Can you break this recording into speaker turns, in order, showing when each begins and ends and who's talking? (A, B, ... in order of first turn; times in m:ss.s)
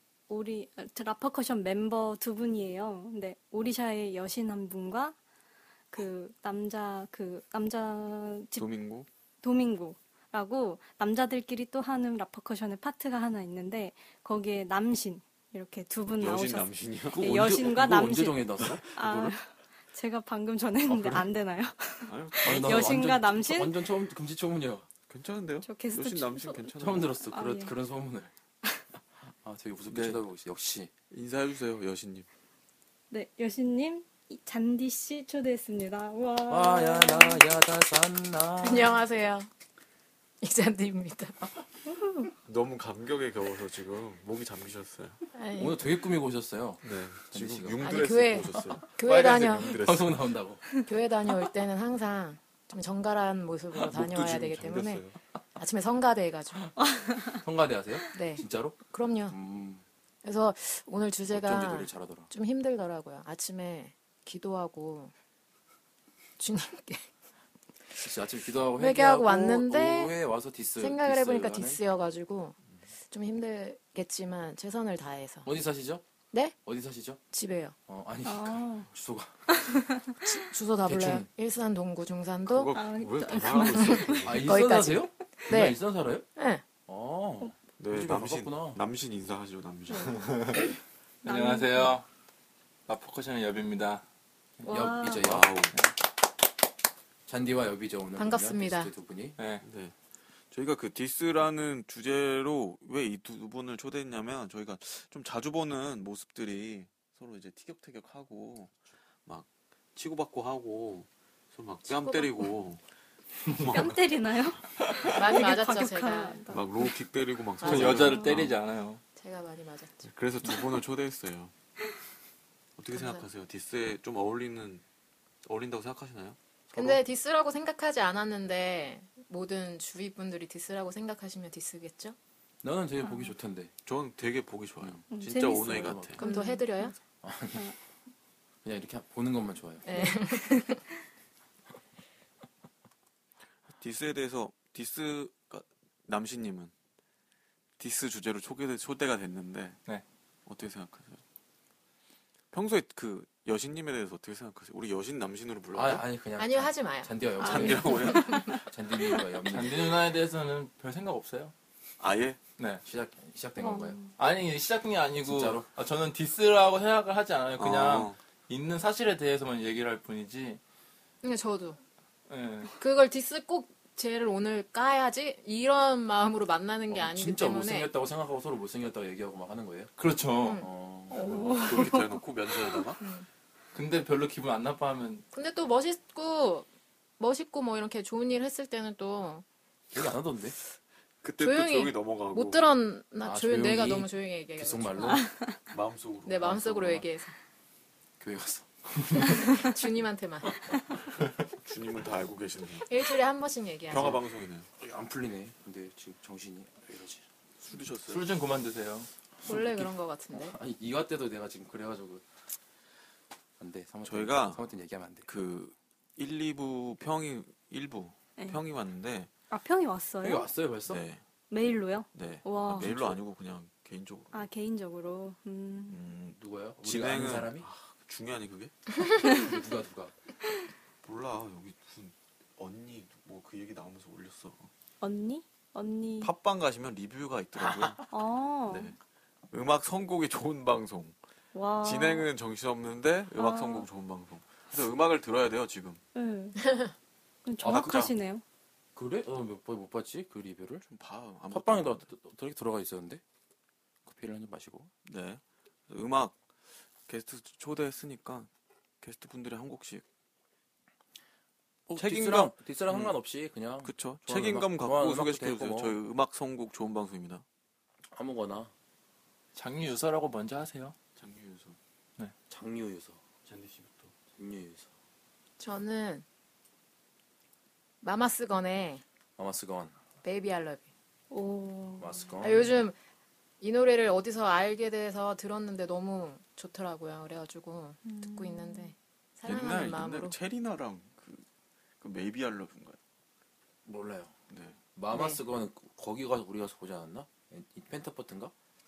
0:00.3-0:05.2 A
0:05.9-0:08.7 A
0:08.6-0:09.1 B
0:09.4-0:23.8 A
0:16.2-0:17.7 B
0:17.2-0:19.0 C
0:18.6-0:19.3 B
0:20.9-0:21.3 C
0:22.1-0:23.0 B
0:22.4-0:24.8 C
0:25.1-0:27.2 B
0:25.6-0:26.7 A
0:26.8-0:28.3 C
0:27.3-0:27.7 A
0:29.3-0:30.9 C
0:31.1-0:32.3 B
0:33.1-0:37.4 A
0:36.5-0:39.0 C
0:38.6-0:39.5 D
0:40.4-0:41.4 D
0:42.4-0:45.2 B
0:45.4-0:45.8 D
0:45.6-0:48.0 C
0:46.8-0:50.2 B
0:47.8-0:49.8 D
0:49.8-0:50.6 C
0:50.9-0:55.0 D
0:53.8-0:55.2 B
0:55.6-0:56.7 D
0:57.0-0:57.3 A
0:57.4-0:59.8 C
0:58.1-0:59.4 D
1:00.2-1:05.1 D
1:01.3-1:02.3 C
1:06.4-1:07.1 D
1:08.0-1:11.8 C
1:08.8-1:10.1 D
1:10.8-1:12.6 D
1:13.1-1:15.5 D
1:15.4-1:16.0 C
1:16.6-1:17.2 C
1:17.3-1:17.8 D
1:17.9-1:19.6 C
1:18.2-1:18.9 A
1:19.5-1:20.0 A
1:20.2-1:22.8 D
1:20.8-1:21.3 C
1:22.5-1:24.5 B
1:22.8-1:24.3 A
1:24.2-1:26.2 C
1:24.4-1:25.8 D
1:26.4-1:26.6 D
1:26.9-1:28.8 C
1:27.8-1:30.2 B
1:30.2-1:30.5 E
1:31.2-1:32.0 E
1:31.2-1:32.0 A
1:32.9-1:34.0 E
1:34.6-1:35.3 A
1:34.7-1:35.5 C
1:35.2-1:35.7 B
1:37.3-1:39.4 C
1:38.2-1:38.9 D
1:39.4-1:39.6 E
1:39.6-1:40.0 B
1:40.5-1:52.8 B
1:51.9-1:52.5 A
1:53.6-1:54.0 B
1:53.7-1:56.9 A
1:55.1-1:56.5 D
1:56.5-1:58.5 B
1:57.6-1:59.0 E
1:57.6-1:58.1 D
1:58.0-1:58.4 A
1:59.2-2:00.1 D
2:00.1-2:01.5 B
2:02.8-2:04.8 B
2:02.9-2:03.2 D
2:05.4-2:06.4 B
2:06.7-2:12.2 D
2:12.6-2:13.7 C
2:13.0-2:13.3 A
2:13.9-2:16.2 B
2:14.8-2:16.2 C
2:15.1-2:17.0 A
2:16.2-2:16.9 D
2:17.2-2:17.7 C
2:18.6-2:20.0 C
2:19.9-2:20.8 D
2:23.8-2:26.7 B
2:27.8-2:29.8 B
2:30.5-2:31.2 B
2:32.5-2:36.1 B
2:35.7-2:40.0 C
2:36.4-2:37.6 D
2:37.4-2:38.6 A
2:37.4-2:38.6 B
2:39.5-2:41.5 E
2:42.0-2:42.4 B
2:42.8-2:44.0 C
2:43.6-2:44.1 A
2:44.2-2:50.6 E
2:45.2-2:45.7 C
2:47.6-2:48.2 B
2:51.2-2:51.8 D
2:52.3-2:52.7 E
2:52.8-2:57.9 D
2:56.9-2:59.9 C
3:00.0-3:00.6 E
3:00.6-3:01.4 C
3:01.1-3:02.8 A
3:01.2-3:03.0 B
3:03.0-3:03.3 D
3:03.7-3:05.2 E
3:05.3-3:06.7 D
3:07.2-3:09.4 D
3:09.9-3:10.6 C
3:11.2-3:12.6 B
3:11.4-3:15.3 D
3:13.2-3:15.3 C
3:15.7-3:17.0 B
3:16.2-3:17.3 D
3:18.2-3:18.7 C
3:19.4-3:20.7 D
3:21.6-3:22.9 B
3:22.9-3:24.2 D
3:23.9-3:24.7 B
3:24.8-3:27.2 C
3:27.6-3:28.2 B
3:28.1-3:29.1 E
3:29.5-3:30.6 D
3:29.5-3:32.2 C
3:33.6-3:35.3 C
3:34.0-3:34.6 B
3:35.3-3:39.3 B
3:39.5-3:40.5 A
3:40.2-3:41.0 C
3:40.9-3:41.2 B
3:41.5-3:43.1 A
3:42.1-3:44.4 B
3:42.8-3:43.1 C
3:44.3-3:46.0 A
3:45.9-3:48.8 B
3:46.4-3:47.7 C
3:49.2-3:50.1 C
3:51.0-3:54.7 B
3:55.0-3:56.3 A
3:56.2-3:58.1 B
3:58.1-3:58.9 A
3:58.7-3:59.0 B
3:59.5-4:01.2 B
4:01.5-4:02.3 A
4:01.8-4:06.0 B
4:03.4-4:03.9 A
4:06.2-4:06.7 A
4:06.6-4:06.9 D
4:07.4-4:08.4 A
4:07.6-4:08.1 B
4:09.0-4:10.8 C
4:10.9-4:12.1 B
4:11.5-4:13.2 C
4:14.1-4:14.9 C
4:15.0-4:16.4 B
4:17.1-4:18.5 B
4:19.0-4:20.0 B
4:21.9-4:23.2 B
4:21.9-4:26.0 C
4:23.8-4:27.4 B
4:28.1-4:28.7 C
4:29.6-4:31.0 E
4:31.2-4:31.8 B
4:32.5-4:33.2 C
4:33.5-4:34.1 B
4:34.4-4:34.9 C
4:35.6-4:36.2 D
4:38.0-4:39.0 D
4:39.4-4:40.0 C
4:40.2-4:40.9 D
4:41.3-4:42.3 A
4:42.0-4:42.7 C
4:42.4-4:43.0 D
4:43.6-4:50.4 D
4:48.0-4:48.9 A
4:49.4-4:51.5 B
4:52.0-4:53.0 B
4:53.8-4:54.3 C
4:54.5-4:54.8 B
4:55.0-4:58.5 C
4:55.1-4:55.4 D